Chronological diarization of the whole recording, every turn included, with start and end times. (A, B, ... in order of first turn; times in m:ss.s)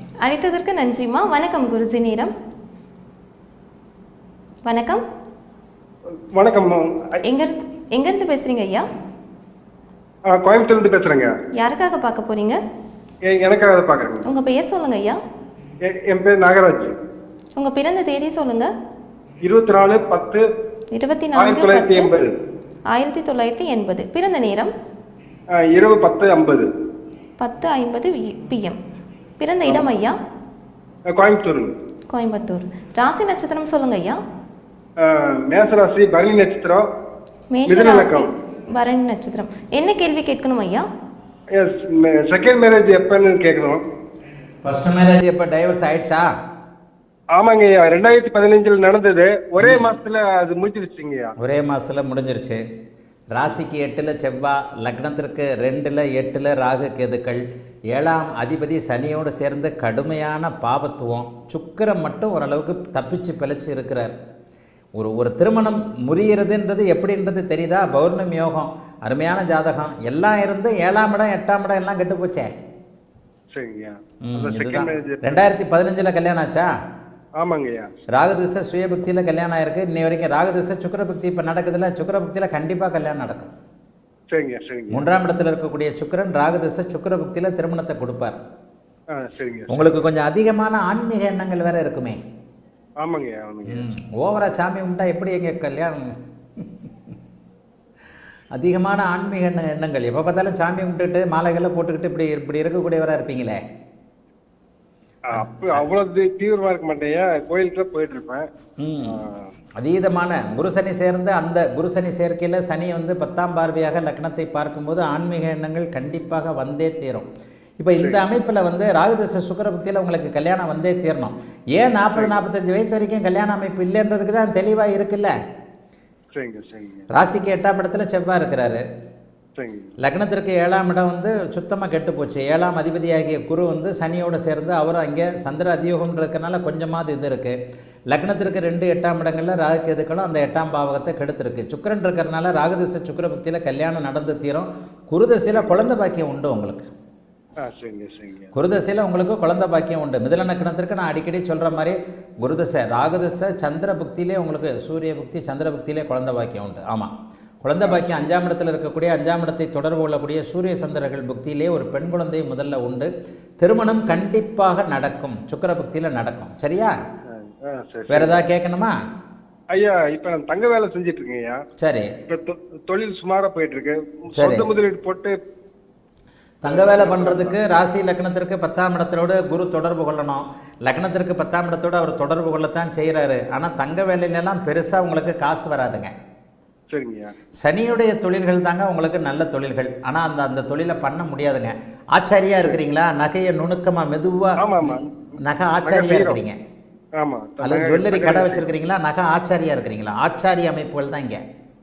0:00.2-0:02.3 A
0:04.6-0:05.0 A
0:06.3-0:07.2 B
0:07.2-0:08.8 A
0:10.3-0:11.3 B
0:11.6-0:12.6 A
0:13.3-0:14.3 B
0:14.2-0:15.2 A
0:15.8-0:17.0 B
0:17.6-0:18.7 A
0:19.4-0:20.4 B
0:20.9-0:22.1 A
0:21.3-0:22.3 B
0:22.9-0:24.7 A
0:25.6-0:26.7 B
0:27.4-0:28.8 A
0:29.4-0:30.1 A
0:31.1-0:31.7 B
0:32.1-0:34.2 A
0:35.0-0:36.8 B
0:37.5-0:40.8 A
0:37.7-0:38.3 B
0:41.5-0:43.8 B
0:44.6-0:46.3 C
0:47.4-0:51.3 B
0:49.6-0:49.9 C
0:51.4-0:52.6 C
0:53.3-1:04.1 C
1:05.0-1:12.5 C
1:13.5-1:15.5 B
1:14.2-1:16.7 C
1:17.4-1:17.9 B
1:18.1-1:23.5 C
1:24.3-1:25.1 B
1:24.9-1:28.4 C
1:29.1-1:29.9 B
1:29.7-1:32.2 C
1:33.0-1:33.8 B
1:33.7-1:36.0 C
1:38.5-1:43.6 C
1:45.3-1:48.4 B
1:45.3-1:45.8 C
1:48.8-1:49.2 C
1:49.0-1:49.5 B
1:49.8-1:57.3 C
1:57.8-2:05.3 C
1:58.0-1:58.2 B
2:02.1-2:02.4 B
2:06.3-2:07.1 B
2:07.1-2:08.8 C
2:09.6-2:09.9 B
2:10.0-2:17.6 C
2:18.1-2:26.8 C
2:27.6-2:28.5 B
2:28.5-2:37.1 C
2:37.6-2:43.1 C
2:37.8-2:38.1 B
2:43.6-2:46.9 C
2:47.3-2:48.3 B
2:48.1-2:48.9 C
2:49.7-2:51.6 B
2:51.8-2:52.1 C
2:52.3-2:55.3 B
2:54.3-2:54.7 C
2:56.6-3:06.1 C
2:56.6-2:57.6 B
3:06.9-3:07.3 B
3:07.6-3:16.6 C
3:14.6-3:15.1 B
3:15.8-3:16.4 B
3:17.2-3:18.7 B
3:17.6-3:21.4 C